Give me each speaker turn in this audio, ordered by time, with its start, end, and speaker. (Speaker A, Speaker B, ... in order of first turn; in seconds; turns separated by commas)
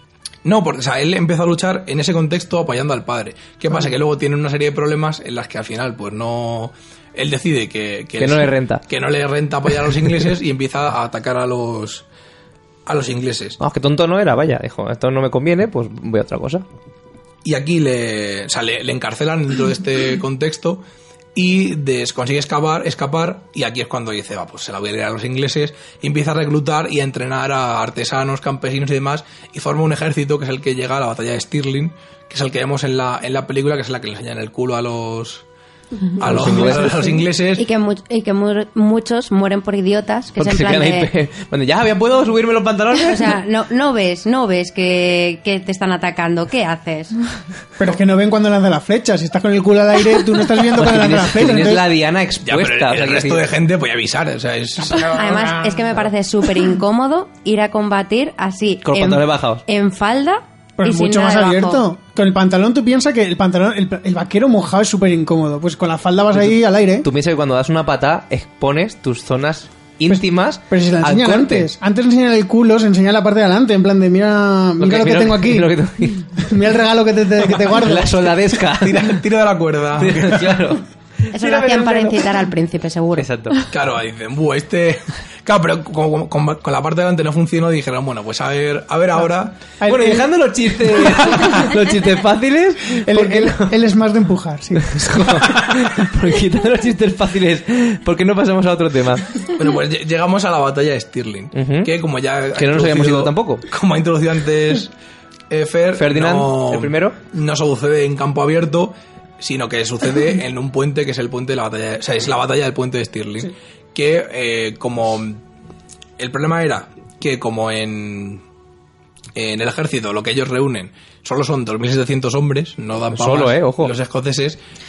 Speaker A: 0.4-12.0, Speaker B: 8.2-8.8, Speaker A: 12.8-13.6, Speaker B: 13.6-16.6, Speaker A: 17.4-20.8, Speaker A: 21.3-35.4, Speaker A: 36.2-37.6, Speaker B: 36.2-37.2, Speaker C: 37.6-41.1, Speaker B: 40.4-43.4, Speaker C: 43.0-47.1, Speaker D: 47.8-51.8, Speaker B: 50.7-53.4, Speaker A: 52.4-55.2, Speaker D: 54.9-55.9, Speaker C: 55.0-61.8, Speaker B: 58.8-59.6, Speaker D: 60.8-67.1, Speaker B: 66.3-71.7, Speaker D: 70.1-75.7, Speaker B: 74.8-76.3, Speaker D: 76.4-78.3, Speaker B: 77.5-79.2, Speaker A: 78.8-80.6, Speaker B: 80.0-82.2, Speaker C: 81.3-83.2, Speaker B: 83.2-83.6, Speaker A: 83.7-89.6, Speaker D: 89.8-90.3, Speaker B: 89.8-93.7, Speaker D: 93.0-95.0, Speaker B: 94.8-99.3, Speaker A: 99.5-104.9, Speaker B: 101.5-101.9, Speaker B: 102.5-103.6, Speaker A: 105.5-115.4, Speaker B: 106.0-107.2, Speaker A: 116.2-118.4, Speaker A: 119.3-124.6, Speaker B: 123.1-123.9